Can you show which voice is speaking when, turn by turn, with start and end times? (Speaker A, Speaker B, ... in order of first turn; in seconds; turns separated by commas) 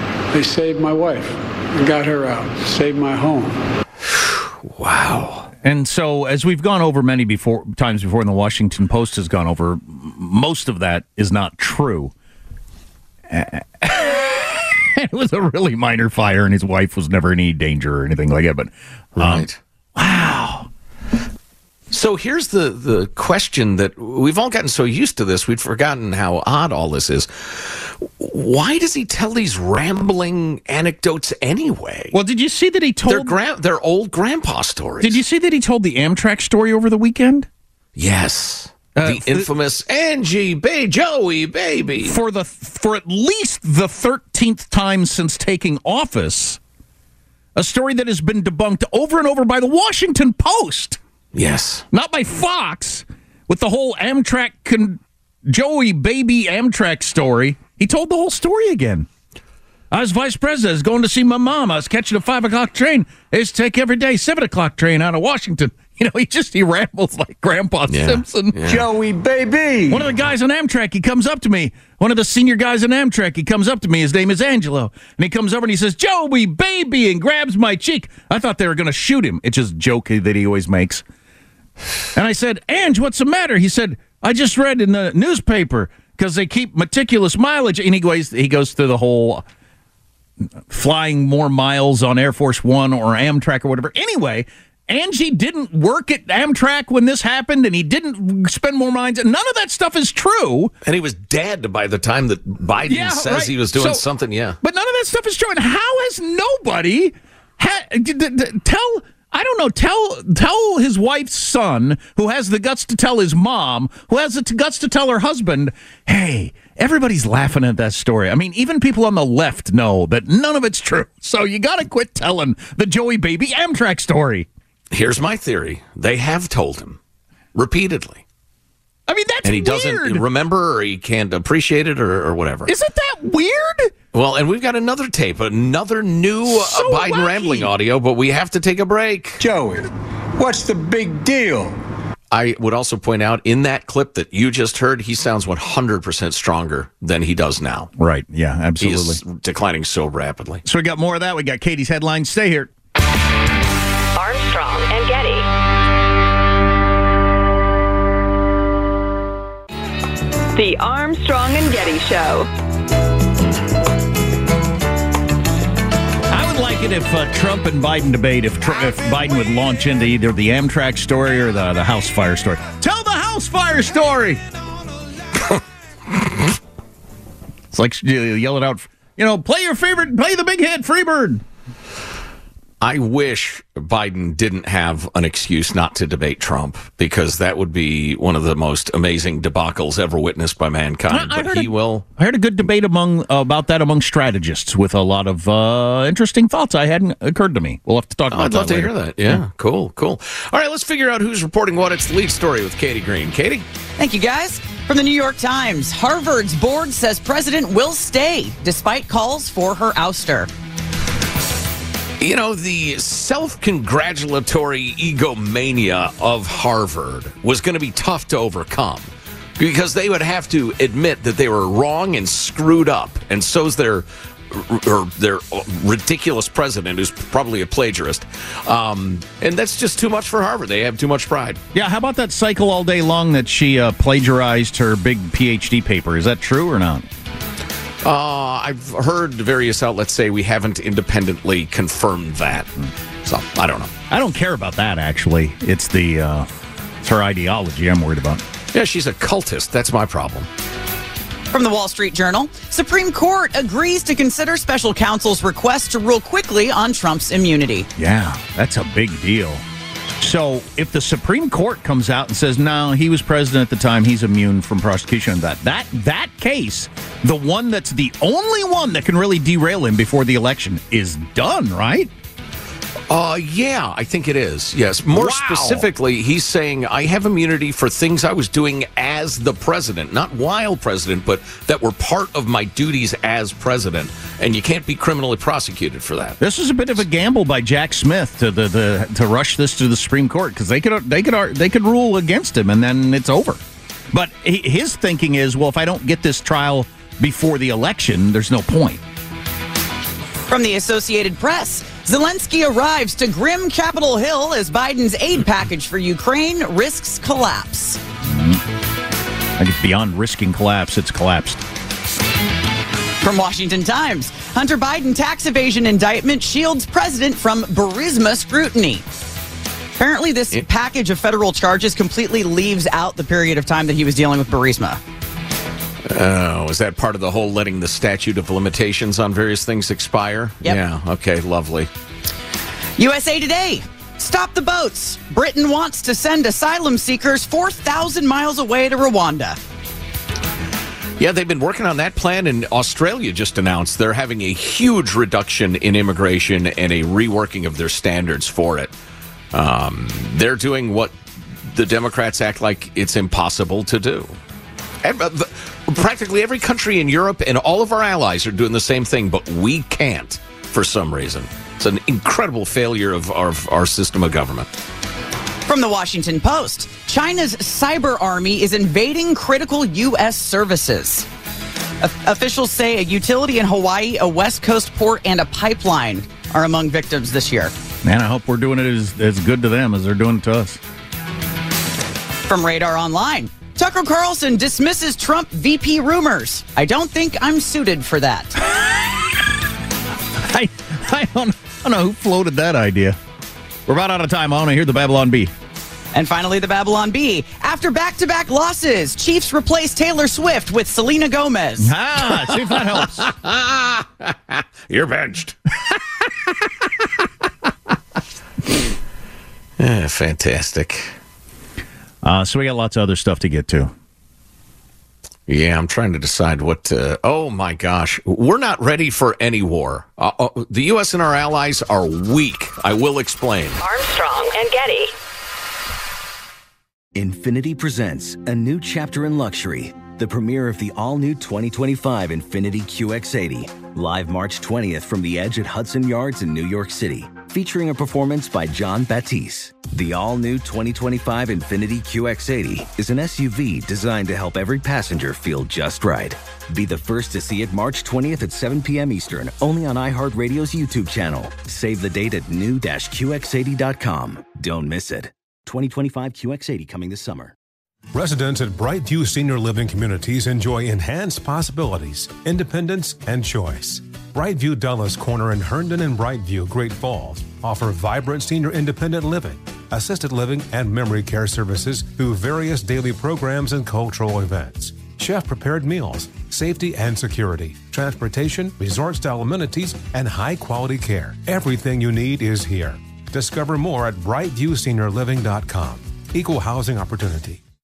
Speaker A: 0.3-3.6, Speaker B: 4.7-5.5, Speaker C: 5.6-12.1, Speaker C: 13.3-20.7, Speaker B: 19.2-19.6, Speaker B: 21.9-32.1, Speaker C: 32.1-33.4, Speaker B: 33.1-35.2, Speaker C: 35.0-37.5, Speaker B: 38.0-42.2, Speaker C: 39.0-39.5, Speaker C: 42.0-46.6, Speaker C: 47.6-51.0, Speaker B: 51.3-51.9, Speaker C: 51.9-59.1, Speaker C: 59.9-68.9, Speaker B: 67.9-68.9, Speaker D: 68.7-70.1, Speaker C: 69.9-81.0, Speaker C: 82.1-89.4, Speaker C: 90.7-100.7, Speaker B: 100.8-104.6, Speaker C: 102.9-104.0, Speaker C: 104.6-124.5, Speaker B: 124.9-127.0, Speaker B: 127.5-128.2, Speaker C: 129.1-130.2, Speaker B: 129.4-132.7, Speaker C: 132.7-133.9, Speaker B: 134.1-139.4, Speaker C: 136.6-137.7, Speaker D: 139.4-141.8, Speaker B: 142.3-147.9, Speaker C: 148.0-149.2, Speaker B: 148.8-150.6, Speaker C: 150.7-152.7, Speaker E: 154.2-155.5, Speaker E: 160.5-162.5, Speaker C: 166.3-174.4, Speaker C: 177.7-181.4, Speaker B: 182.8-192.1, Speaker C: 191.1-199.4, Speaker B: 198.3-203.7, Speaker F: 204.0-210.5, Speaker B: 212.2-231.6, Speaker C: 231.7-237.1, Speaker B: 238.0-242.7, Speaker B: 243.2-243.9, Speaker C: 244.1-246.5, Speaker C: 247.0-248.4, Speaker B: 248.7-250.5, Speaker F: 251.5-257.9, Speaker C: 258.0-259.6, Speaker C: 260.2-272.1, Speaker B: 273.1-286.4, Speaker C: 275.1-275.9, Speaker C: 286.4-293.6, Speaker C: 294.1-299.0, Speaker F: 300.5-308.0, Speaker C: 308.2-308.6, Speaker C: 309.6-311.6, Speaker F: 313.2-319.0, Speaker F: 320.0-325.0, Speaker B: 326.1-331.9, Speaker F: 333.0-339.6, Speaker B: 341.2-348.9, Speaker B: 349.5-351.1, Speaker B: 351.7-354.4, Speaker B: 355.0-364.7, Speaker F: 365.7-371.3, Speaker F: 372.0-377.7, Speaker C: 378.0-380.8, Speaker F: 382.5-388.5, Speaker C: 388.7-389.5, Speaker C: 390.4-393.2, Speaker C: 393.9-395.5, Speaker F: 396.1-401.9, Speaker C: 401.8-403.3, Speaker B: 402.4-405.6, Speaker B: 409.8-411.1, Speaker C: 412.2-413.9, Speaker B: 415.5-423.8, Speaker E: 423.8-425.1, Speaker G: 427.1-457.6, Speaker H: 458.1-487.6